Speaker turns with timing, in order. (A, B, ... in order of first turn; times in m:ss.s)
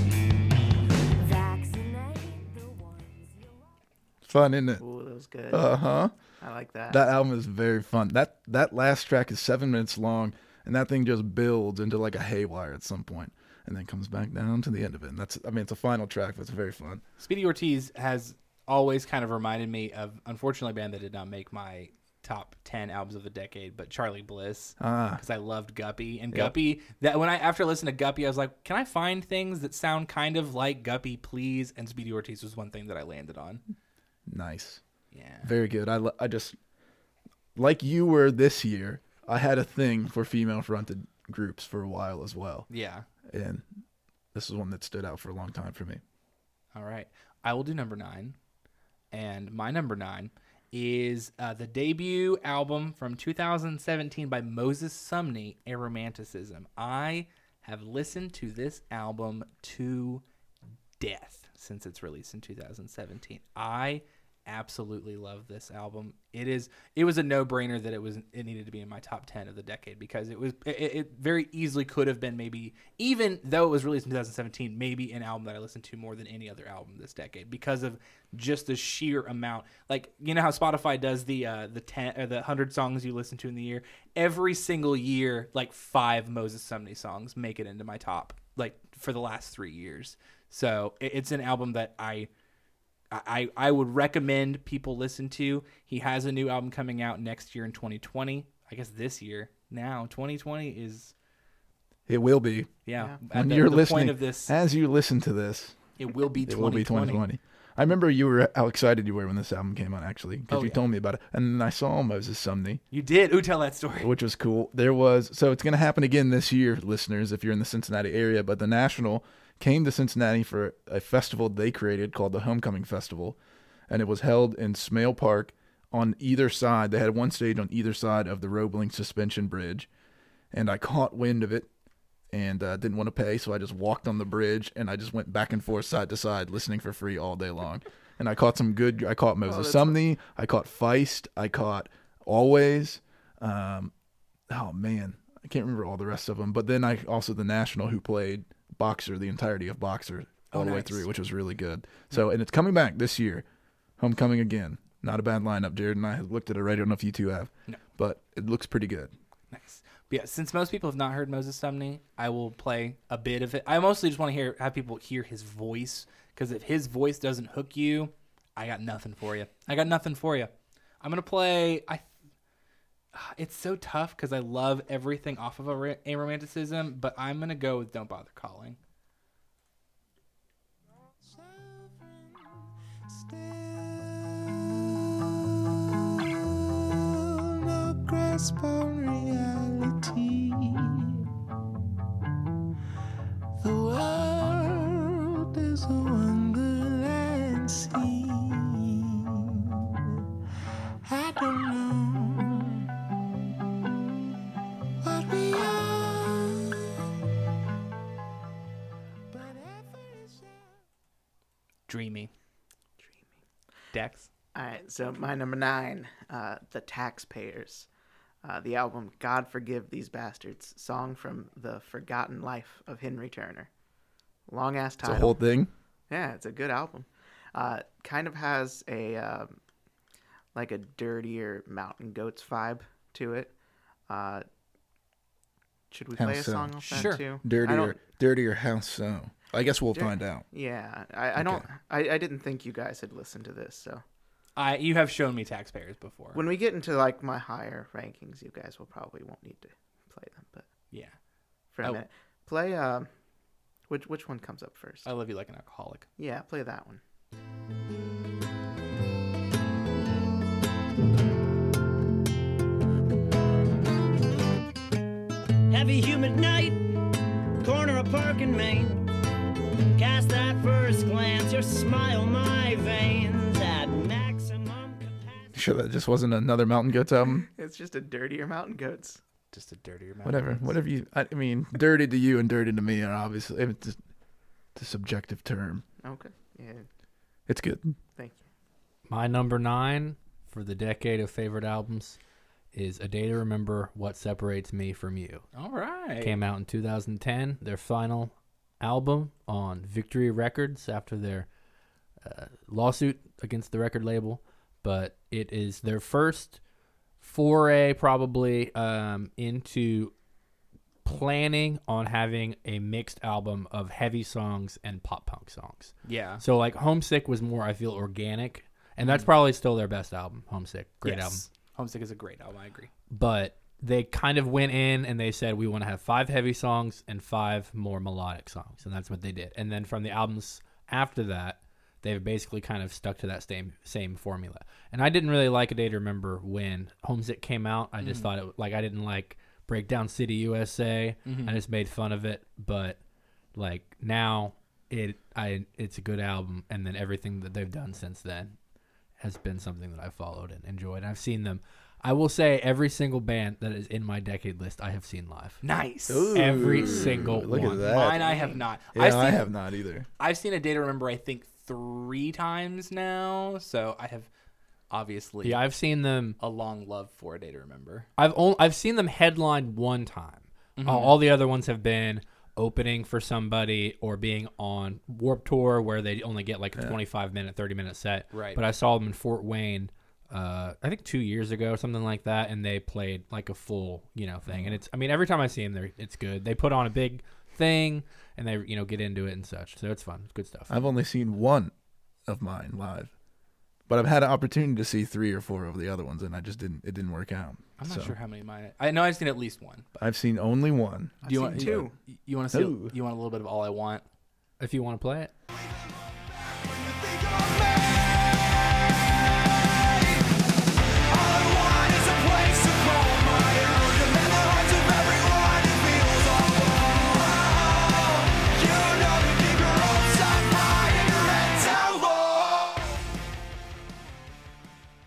0:01.1-0:03.7 A
0:04.2-0:04.8 B
0:04.8-0:05.7 C
0:05.5-0:06.1 B
0:06.4-0:07.0 C
0:06.9-0:17.0 B
0:17.2-0:33.6 D
0:24.8-0:25.2 B
0:26.3-0:26.6 B
0:34.3-0:34.8 B
0:35.1-0:35.5 D
0:35.4-0:36.6 B
0:37.6-0:42.7 B
0:42.7-0:43.1 D
0:43.3-0:43.6 B
0:44.3-0:46.0 B
0:46.7-0:48.4 D
0:49.1-1:00.2 D
1:01.0-1:32.3 D
1:33.1-1:41.1 D
1:42.1-1:42.8 B
1:42.8-1:44.5 D
1:43.3-1:52.8 B
1:46.0-1:47.2 D
1:50.5-1:50.8 D
1:52.9-1:54.1 D
1:54.0-2:09.9 B
2:10.5-2:11.7 B
2:12.3-2:23.9 B
2:19.4-2:20.0 C
2:24.5-2:33.4 B
2:30.5-2:31.1 D
2:34.0-2:39.1 B
2:39.5-2:52.1 D
2:53.1-2:58.8 D
3:01.2-3:11.3 E
3:13.6-3:19.8 E
3:21.0-3:22.8 E
3:25.0-3:26.8 E
3:29.3-3:30.6 E
3:31.9-3:32.3 D
3:33.9-3:34.3 D
3:34.5-3:37.9 C
3:38.4-3:43.7 C
3:44.5-3:45.4 C
3:45.0-3:45.7 B
3:46.1-3:49.6 C
3:50.5-3:53.5 C
3:54.1-3:54.4 C
3:55.9-3:58.0 C
3:56.2-4:00.4 B
3:56.9-3:57.2 D
3:59.9-4:04.0 C
4:01.4-4:01.6 B
4:04.6-4:06.4 D
4:06.3-4:10.7 C
4:10.9-4:11.2 D
4:11.7-4:13.1 C
4:13.9-4:15.1 C
4:15.0-4:16.0 D
4:16.2-4:17.0 C
4:25.7-4:26.8 F
4:27.6-4:29.1 F
4:30.0-4:35.6 F
4:35.5-4:37.5 B
4:37.2-4:39.2 C
4:39.5-4:40.8 D
4:40.2-4:44.0 B
4:44.7-4:45.8 B
4:46.0-4:46.9 C
4:47.5-4:48.0 B
4:48.2-4:48.4 C
4:49.1-4:52.2 G
4:52.7-4:55.4 G
4:55.5-4:56.4 D
4:56.2-5:01.5 G
5:02.2-5:06.6 G
5:07.2-5:10.1 G
5:11.0-5:21.4 G
5:16.0-5:16.4 D
5:19.0-5:19.3 D
5:21.0-5:22.9 D
5:23.1-5:43.0 G
5:38.0-5:38.3 D
5:41.2-5:41.6 D
5:43.6-5:48.5 G
5:49.2-5:55.6 G
5:55.6-5:56.7 D
5:56.1-5:58.2 B
5:56.3-5:57.8 G
5:57.8-5:59.5 D
5:57.9-5:58.6 C
5:58.9-6:00.1 B
6:00.2-6:04.3 D
6:04.9-6:05.6 D
6:05.4-6:06.4 G
6:06.4-6:08.1 D
6:08.2-6:30.8 G
6:10.8-6:11.2 D
6:18.3-6:18.6 D
6:24.5-6:24.8 B
6:30.7-6:31.7 B
6:32.3-6:33.1 B
6:33.9-6:38.1 B
6:37.8-6:40.0 D
6:40.0-6:41.9 B
6:41.2-6:41.9 C
6:41.2-6:44.0 D
6:42.5-6:42.9 B
6:44.6-6:45.3 G
6:45.5-6:50.4 E
6:51.1-7:03.0 E